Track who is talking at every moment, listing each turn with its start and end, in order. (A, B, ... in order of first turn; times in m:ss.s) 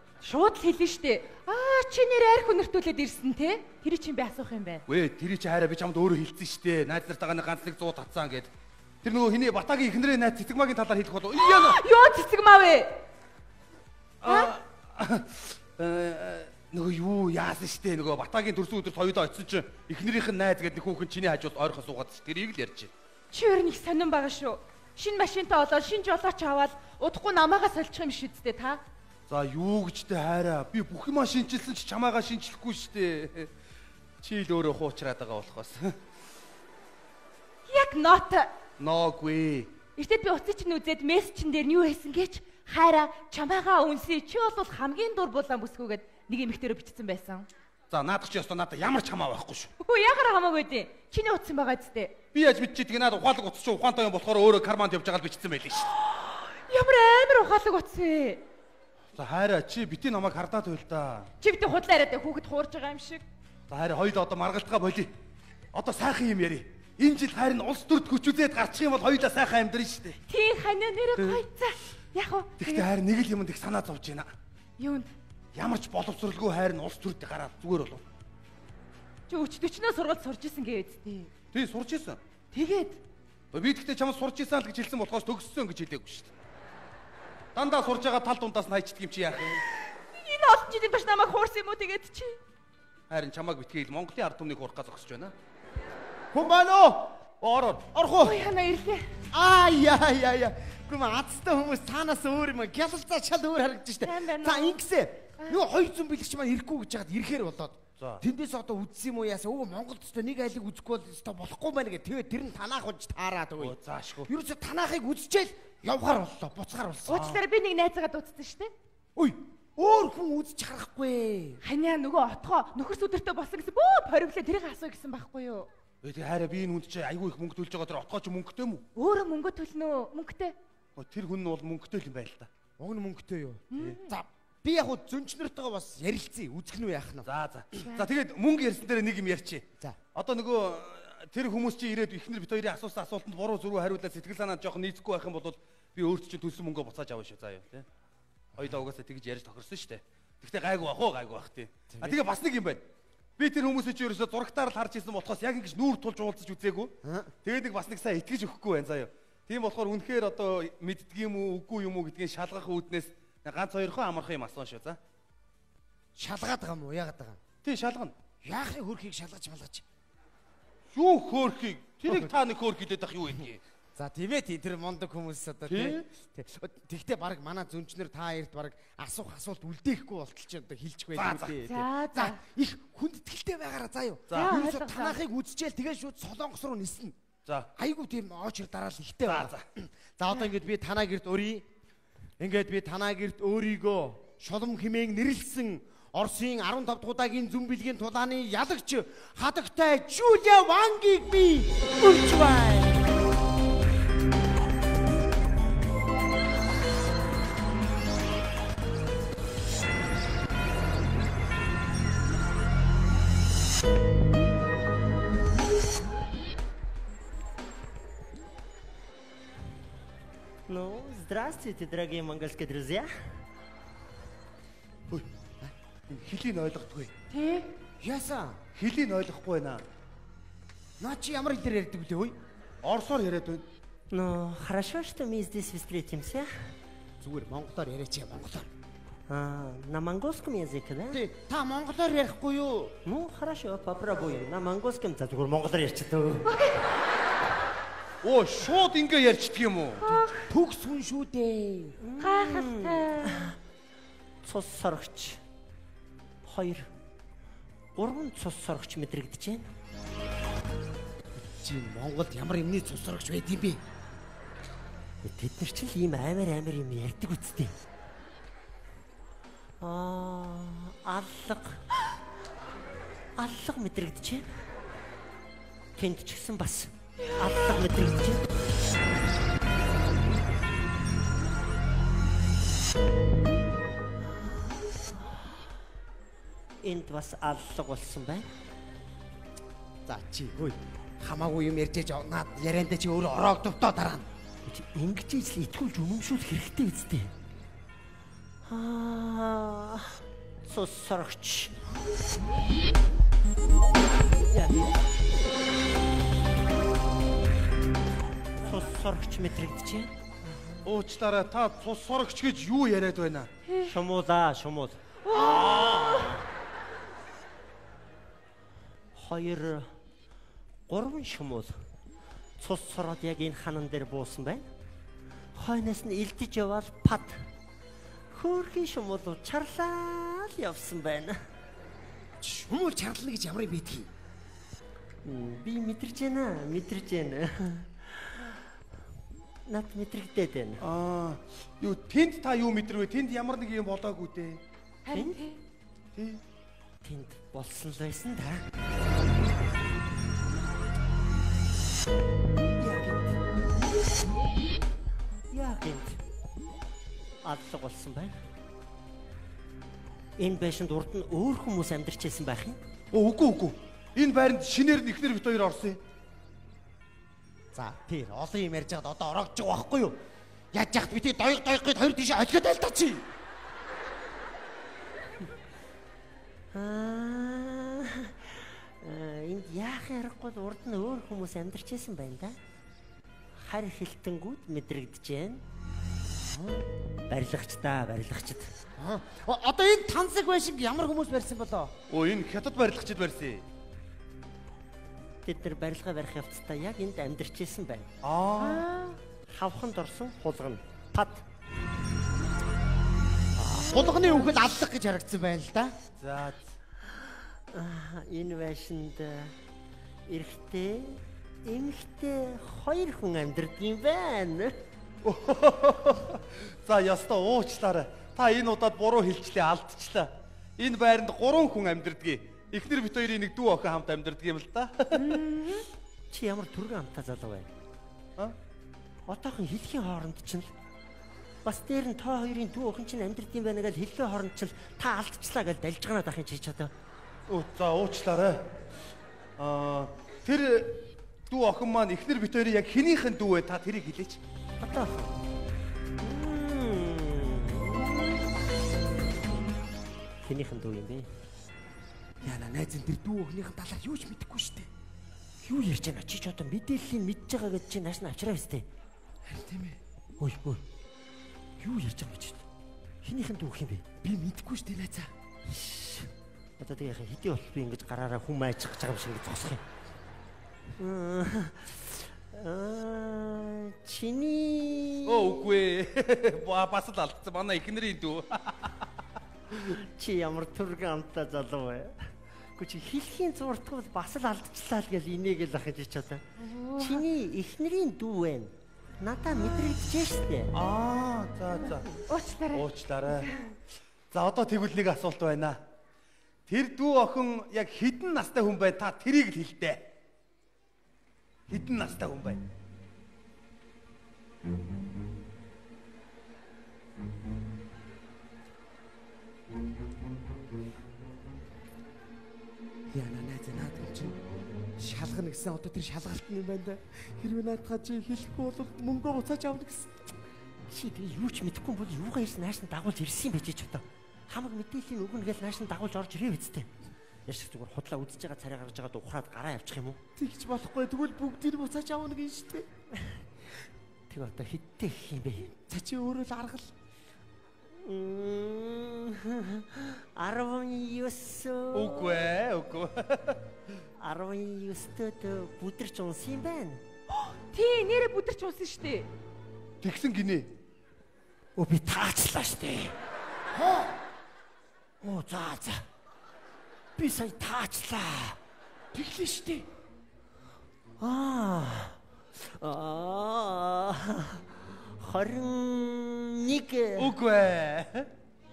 0:00.2-0:04.8 A
0:04.9-0:08.5 B
0:09.0-0:11.8 B
0:11.3-0:13.0 A
0:14.2-0:22.9 B
0:14.2-0:14.5 A
0:23.3-0:28.8 A
0:29.3-0:33.5 B
0:34.2-0:35.9 B
0:37.7-0:38.5 A
0:38.8-0:39.7 B
0:40.0-0:47.5 A
0:47.9-0:49.7 B
0:49.8-0:52.1 A
0:52.3-0:55.9 B
0:56.7-0:58.4 A
0:59.1-1:01.3 B
1:01.4-1:03.2 A
1:03.7-1:05.1 B
1:05.7-1:10.2 B
1:10.3-1:12.9 A
1:11.2-1:11.4 B
1:12.6-1:14.3 B
1:14.8-1:15.1 A
1:15.5-1:18.0 B
1:19.3-1:21.3 A
1:21.5-1:22.2 B
1:22.5-1:23.0 A
1:23.5-1:26.3 B
1:27.5-1:29.6 B
1:30.1-1:32.4 A
1:33.1-1:35.3 B
1:36.3-1:37.1 C
1:37.4-1:37.9 B
1:37.9-1:38.4 C
1:38.2-1:39.0 A
1:39.3-1:57.3 C
1:44.0-1:44.8 A
1:53.6-1:54.3 B
1:57.1-1:58.7 A
1:59.2-2:01.6 C
2:01.6-2:05.7 A
2:06.0-2:08.8 B
2:09.0-2:10.6 A
2:11.0-2:12.5 B
2:12.8-2:17.3 C
2:13.7-2:14.1 A
2:17.2-2:27.8 B
2:28.6-2:32.8 B
2:31.9-2:32.2 C
2:33.4-2:36.9 B
2:37.0-2:37.3 C
2:37.4-2:45.0 B
2:46.2-2:47.4 C
2:47.6-2:48.1 B
2:48.4-2:49.8 C
2:50.9-2:53.6 B
2:54.0-3:07.1 C
2:55.7-2:56.0 B
3:01.2-3:01.6 B
3:01.6-3:02.4 A
3:04.3-3:04.5 B
3:04.3-3:05.2 A
3:07.8-3:11.6 C
3:09.2-3:09.6 B
3:12.4-3:21.8 C
3:22.0-3:23.0 D
3:40.7-3:43.1 D
3:46.1-3:47.1 B
3:47.3-3:47.7 A
3:48.0-3:48.6 C
3:48.7-3:49.8 B
3:51.0-3:52.4 C
3:52.8-3:53.6 B
3:54.1-3:56.7 D
3:57.2-3:58.7 C
3:59.3-4:01.2 D
4:01.1-4:02.9 C
4:03.0-4:06.5 D
4:06.4-4:06.8 A
4:08.2-4:10.0 B
4:10.0-4:10.4 A
4:10.4-4:12.0 C
4:12.0-4:13.6 D
4:12.2-4:13.4 A
4:14.4-4:15.4 D
4:16.4-4:16.9 D
4:18.0-4:19.7 D
4:21.4-4:23.8 C
4:25.2-4:27.7 D
4:29.8-4:31.8 D
4:33.4-4:34.5 D
4:36.0-4:38.4 D
4:46.8-4:48.5 D
4:50.0-4:54.2 C
4:54.6-4:57.3 D
4:58.6-5:01.8 D
5:04.5-5:05.0 D
5:08.6-5:10.1 D
5:10.8-5:13.5 B
5:13.8-5:15.0 D
5:15.2-5:16.4 A
5:15.3-5:16.4 B
5:19.1-5:19.9 D
5:20.9-5:21.8 D
5:22.6-5:24.6 D
5:25.6-5:27.4 D
5:28.3-5:31.4 D
5:32.4-5:34.1 C
5:35.2-5:38.6 D
5:39.7-5:40.8 D
5:40.8-5:44.6 B
5:45.0-5:45.6 A
5:45.1-5:45.4 D
5:47.0-5:48.6 D
5:52.8-5:53.4 D
5:55.5-5:56.2 D
5:57.4-5:58.4 D
6:00.4-6:02.8 D
6:03.1-6:06.0 B
6:07.7-6:10.2 C
6:10.7-6:13.2 C
6:16.7-6:22.6 D
6:23.5-6:25.6 D
6:26.3-6:26.8 C
6:27.3-6:28.7 D
6:29.0-6:31.9 C
6:32.1-6:33.6 B
6:35.4-6:38.1 D
6:38.2-6:38.8 B
6:38.7-6:39.1 A
6:39.5-6:41.4 D
6:43.6-6:45.9 C
6:46.2-6:46.7 B
6:47.7-6:49.5 D
6:50.3-6:54.8 D
6:55.2-7:05.4 B
7:05.1-7:07.7 D
7:09.2-7:10.7 D
7:11.6-7:16.9 D
7:17.5-7:18.6 B
7:19.6-7:21.0 B
7:21.5-7:24.4 B
7:24.8-7:25.4 D
7:26.2-7:28.5 D
7:30.4-7:31.3 D
7:32.4-7:34.9 C
7:35.6-7:38.8 D
7:39.4-7:40.0 C
7:40.4-7:40.8 D
7:41.8-7:42.6 D
7:43.2-7:44.0 D
7:44.2-7:45.3 C
7:45.6-7:49.8 D
7:51.0-7:55.7 D
7:55.3-7:58.9 B
7:59.7-8:02.2 D
8:02.8-8:06.4 D
8:06.6-8:07.2 A
8:07.0-8:10.7 D
8:10.7-8:12.1 B
8:11.9-8:13.7 A
8:12.7-8:13.5 B
8:14.3-8:15.8 B
8:16.7-8:20.0 B
8:21.7-8:22.6 B
8:33.1-8:34.4 C
8:35.0-8:40.3 C
8:40.9-8:46.9 D
8:47.4-8:50.2 D
8:50.4-8:52.9 C
8:53.1-8:53.4 D
8:54.3-8:55.7 D
8:55.6-8:56.9 C
8:58.0-9:02.4 D
9:01.9-9:03.6 B
9:04.2-9:07.0 D
9:07.3-9:09.3 A
9:10.0-9:10.7 B
9:11.8-9:13.1 D
9:13.7-9:14.1 C
9:15.2-9:16.0 D
9:17.2-9:18.6 D
9:19.1-9:19.8 C
9:21.2-9:24.6 D
9:25.2-9:27.4 D
9:27.2-9:28.3 B